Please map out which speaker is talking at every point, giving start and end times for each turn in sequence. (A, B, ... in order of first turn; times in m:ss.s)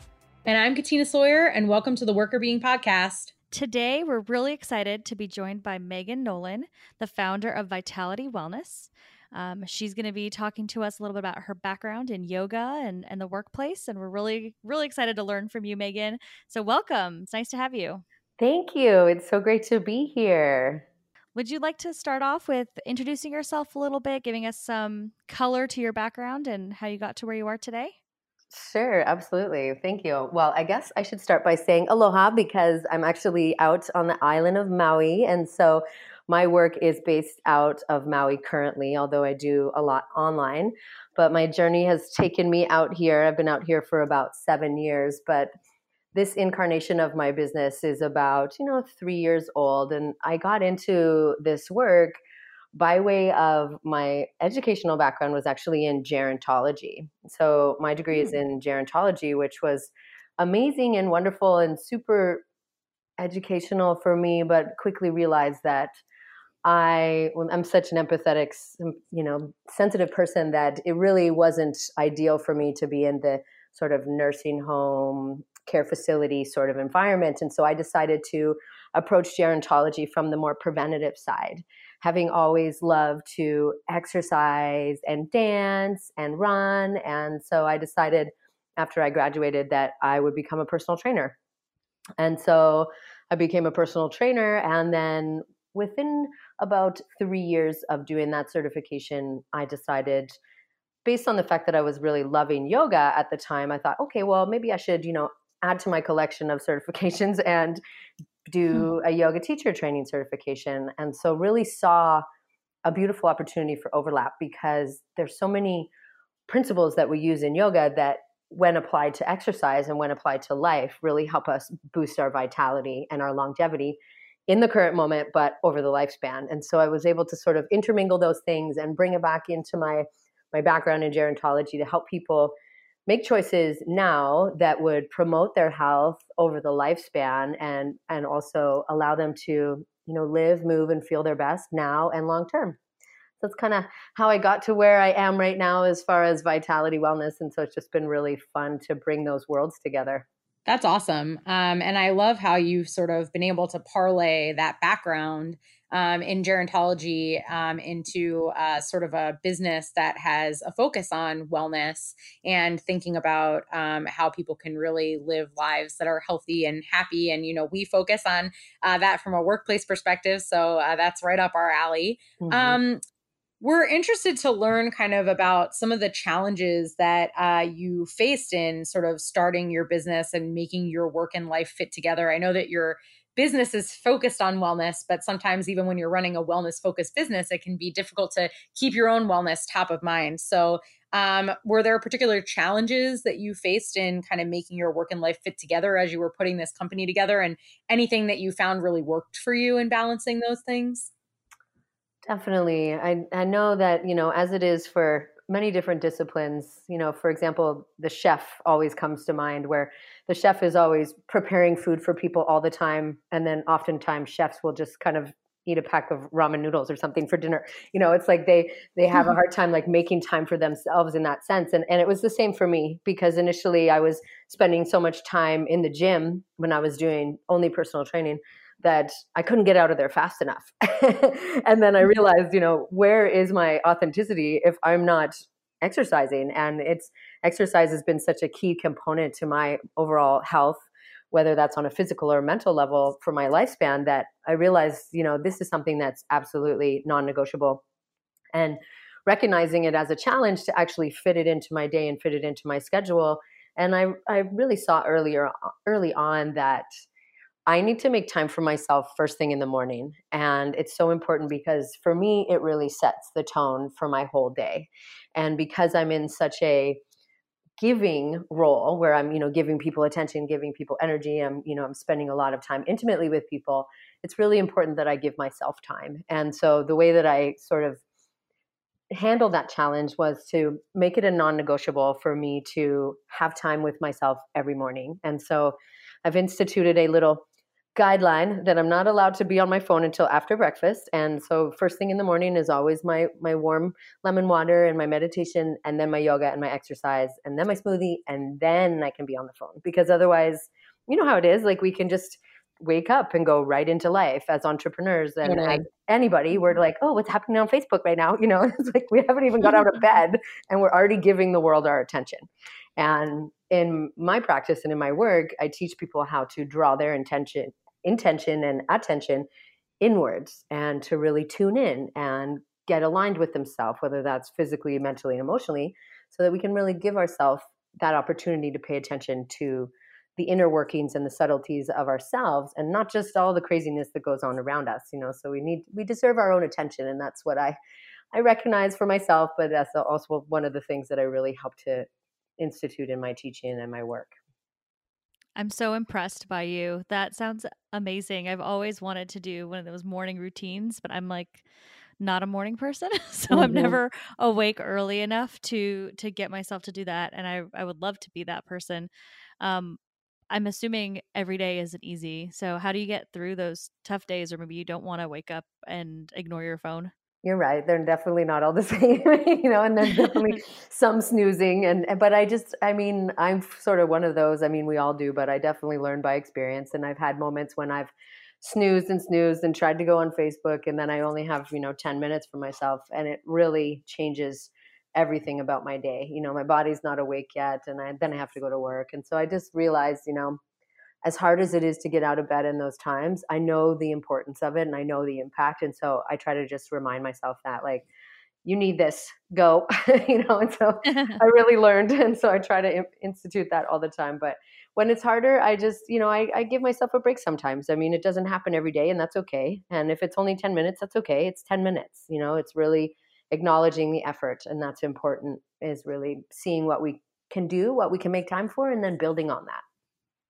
0:00.4-0:03.3 A
0:03.5-0:18.0 B
0:18.4-0:20.8 C
0:21.3-0:28.0 B
0:28.5-0:45.5 C
0:46.1-0:52.2 C
0:52.7-1:02.4 C
1:03.2-1:06.0 C
1:06.6-1:31.4 C
1:32.2-1:40.3 C
1:41.0-1:47.8 C
1:48.5-1:52.2 C
1:52.8-1:55.9 C
1:56.5-2:12.5 C
2:13.1-2:22.8 C
2:23.4-2:30.2 C
2:30.6-2:53.0 A
2:52.4-2:52.8 C
2:53.6-3:21.1 A
3:22.2-4:07.8 C
4:08.5-4:16.9 C
4:17.7-4:27.0 C
4:27.8-4:38.0 C
4:39.1-4:47.4 C
4:47.9-5:19.5 C
5:05.4-5:05.8 A
5:20.0-5:37.8 C
5:38.3-5:42.1 C
5:42.6-5:44.3 C
5:45.6-5:51.6 B
5:52.2-5:59.1 B
5:53.5-5:54.0 C
5:59.6-6:00.0 B
6:00.5-6:07.1 B
6:07.4-6:30.6 C
6:31.2-6:38.1 C
6:38.6-6:59.8 C
6:41.1-6:41.4 B